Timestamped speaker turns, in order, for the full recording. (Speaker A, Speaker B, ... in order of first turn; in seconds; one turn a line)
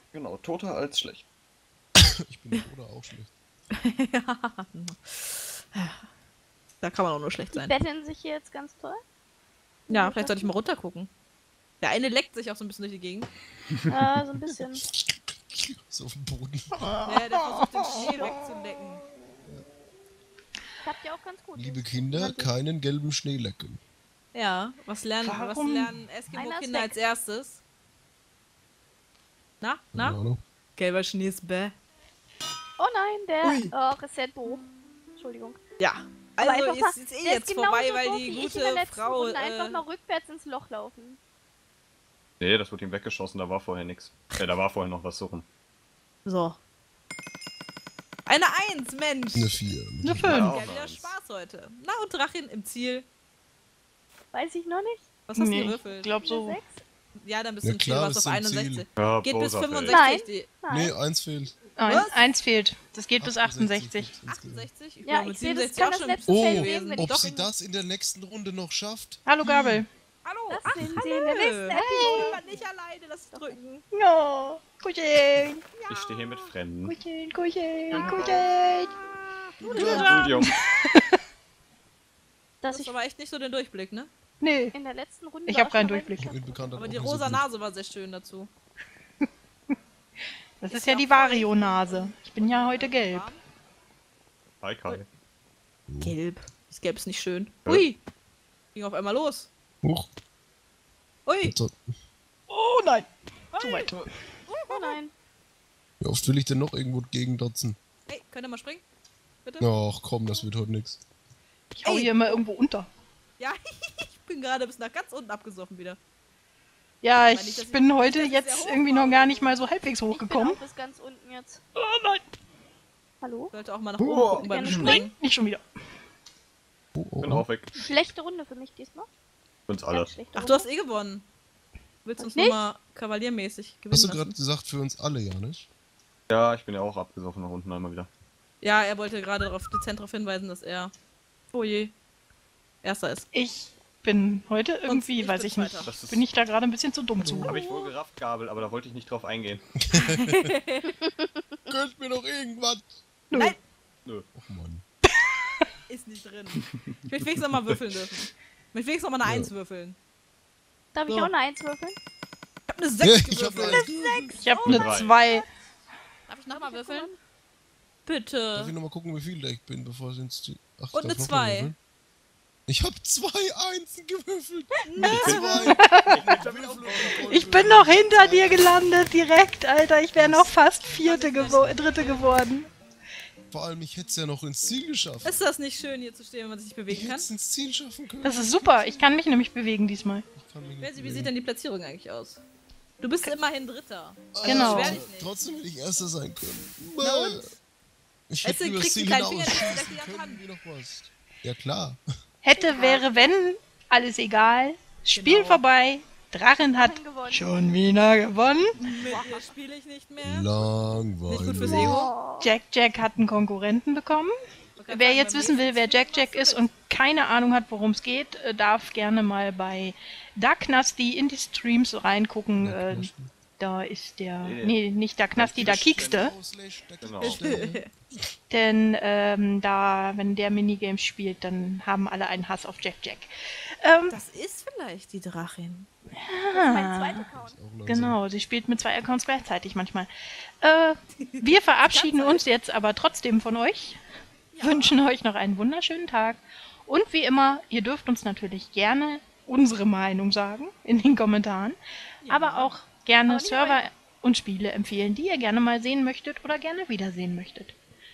Speaker A: 0.1-1.2
Speaker B: 2.0-3.3
Speaker C: 3.7-6.0
Speaker C: 6.8-7.8
Speaker D: 7.5-9.0
Speaker D: 9.9-10.5
Speaker C: 9.9-11.1
Speaker C: 11.8-13.3
Speaker D: 13.9-14.8
Speaker B: 14.2-16.9
Speaker E: 16.8-18.3
Speaker C: 17.1-19.0
Speaker D: 18.0-18.3
Speaker D: 20.8-22.5
Speaker B: 21.6-23.8
Speaker C: 24.3-27.6
Speaker E: 25.2-25.9
Speaker D: 26.3-27.0
Speaker C: 29.6-30.2
Speaker B: 29.9-30.4
Speaker C: 30.8-31.8
Speaker D: 32.8-35.6
Speaker C: 33.4-33.7
Speaker C: 35.8-39.8
Speaker D: 36.4-41.2
Speaker A: 42.4-45.5
Speaker C: 46.2-46.6
Speaker C: 48.3-49.5
Speaker B: 49.3-50.5
Speaker E: 50.0-50.5
Speaker A: 50.2-51.1
Speaker C: 50.4-53.1
Speaker D: 54.3-55.1
Speaker C: 55.3-56.1
Speaker E: 55.4-56.6
Speaker D: 56.1-56.8
Speaker C: 57.1-60.5
Speaker B: 57.6-58.9
Speaker A: 59.0-60.0
Speaker D: 59.9-61.0
Speaker B: 60.7-61.6
Speaker E: 61.8-64.1
Speaker C: 61.9-62.3
Speaker B: 63.2-64.7
Speaker C: 64.3-67.5
Speaker D: 65.0-67.5
Speaker B: 66.3-69.7
Speaker E: 69.3-69.9
Speaker C: 70.2-73.8
Speaker D: 70.5-72.5
Speaker E: 71.4-72.4
Speaker D: 73.3-73.6
Speaker E: 73.9-75.6
Speaker C: 75.8-76.5
Speaker A: 75.9-77.0
Speaker E: 76.8-79.0
Speaker A: 77.9-78.5
Speaker C: 78.0-78.3
Speaker C: 79.4-80.3
Speaker B: 79.6-80.3
Speaker A: 79.8-80.5
Speaker E: 79.8-81.2
Speaker D: 82.6-82.9
Speaker C: 82.7-84.1
Speaker E: 84.4-84.8
Speaker D: 84.7-87.0
Speaker E: 85.5-86.3
Speaker B: 86.2-87.5
Speaker C: 86.8-88.5
Speaker E: 90.6-93.3
Speaker C: 90.7-93.4
Speaker A: 94.6-95.1
Speaker B: 95.9-96.2
Speaker C: 96.0-98.0
Speaker C: 98.7-99.5
Speaker B: 99.8-100.1
Speaker C: 101.3-101.6
Speaker B: 101.4-101.8
Speaker E: 102.5-104.1
Speaker C: 103.5-103.9
Speaker C: 104.5-105.0
Speaker D: 104.6-105.1
Speaker B: 106.0-107.8
Speaker C: 108.1-108.8
Speaker B: 109.6-111.0
Speaker E: 111.7-112.9
Speaker C: 111.8-112.4
Speaker C: 113.4-116.0
Speaker E: 117.0-120.6
Speaker C: 117.2-119.5
Speaker D: 120.1-121.6
Speaker E: 121.8-122.2
Speaker D: 123.2-123.5
Speaker C: 123.5-125.1
Speaker A: 124.0-125.0
Speaker D: 124.4-125.0
Speaker E: 124.7-125.6
Speaker B: 127.0-127.5
Speaker A: 127.2-127.7
Speaker D: 127.8-129.1
Speaker A: 129.7-130.1
Speaker D: 129.9-130.7
Speaker C: 130.3-131.2
Speaker C: 132.0-134.3
Speaker D: 132.2-132.6
Speaker B: 133.9-135.7
Speaker A: 136.3-138.1
Speaker C: 138.6-140.9
Speaker C: 141.5-141.9
Speaker C: 142.8-143.3
Speaker E: 143.3-147.9
Speaker C: 144.9-145.9
Speaker A: 145.8-146.3
Speaker B: 147.2-147.6
Speaker A: 147.4-149.6
Speaker B: 149.8-150.5
Speaker C: 149.9-150.9
Speaker D: 150.9-151.4
Speaker B: 151.7-153.0
Speaker E: 153.3-153.6
Speaker C: 153.3-153.6
Speaker B: 154.3-154.8
Speaker C: 155.9-160.0
Speaker B: 159.2-159.5
Speaker D: 160.9-162.0
Speaker C: 161.1-161.3
Speaker C: 162.7-164.9
Speaker B: 163.0-164.4
Speaker E: 164.4-165.5
Speaker A: 164.7-165.2
Speaker C: 166.3-167.1
Speaker D: 166.5-167.2
Speaker C: 168.1-168.8
Speaker B: 168.6-171.8
Speaker C: 170.9-171.7
Speaker B: 172.7-179.3
Speaker C: 174.9-175.8
Speaker A: 175.1-177.7
Speaker E: 175.7-176.4
Speaker E: 177.2-182.7
Speaker B: 180.1-180.6
Speaker C: 180.8-182.3
Speaker B: 181.4-181.8
Speaker B: 183.5-185.4
Speaker C: 185.2-187.3
Speaker B: 186.9-189.1
Speaker E: 188.2-190.3
Speaker B: 190.3-191.3
Speaker C: 190.8-192.4
Speaker C: 193.0-195.3
Speaker B: 194.3-197.5
Speaker E: 194.4-195.0
Speaker C: 197.0-197.5
Speaker B: 198.3-202.0
Speaker C: 198.4-200.4
Speaker E: 202.4-208.8
Speaker D: 202.6-203.3
Speaker C: 205.1-205.6
Speaker D: 206.7-207.5
Speaker C: 208.8-210.7
Speaker D: 208.8-209.5
Speaker B: 210.2-212.1
Speaker C: 211.3-212.1
Speaker D: 211.6-212.5
Speaker E: 212.4-214.3
Speaker C: 214.8-216.7
Speaker E: 214.9-226.3
Speaker B: 222.6-223.3
Speaker A: 224.4-224.8
Speaker A: 225.3-226.3
Speaker B: 225.5-228.3
Speaker A: 227.0-227.4
Speaker C: 227.2-227.9
Speaker E: 228.5-234.2
Speaker C: 234.1-235.9
Speaker E: 236.2-237.3
Speaker D: 236.5-237.6
Speaker B: 237.4-238.2
Speaker E: 237.8-240.1
Speaker E: 240.6-244.0
Speaker C: 241.2-242.5
Speaker C: 244.5-245.0
Speaker E: 244.6-257.8
Speaker C: 252.2-252.7
Speaker D: 253.3-253.8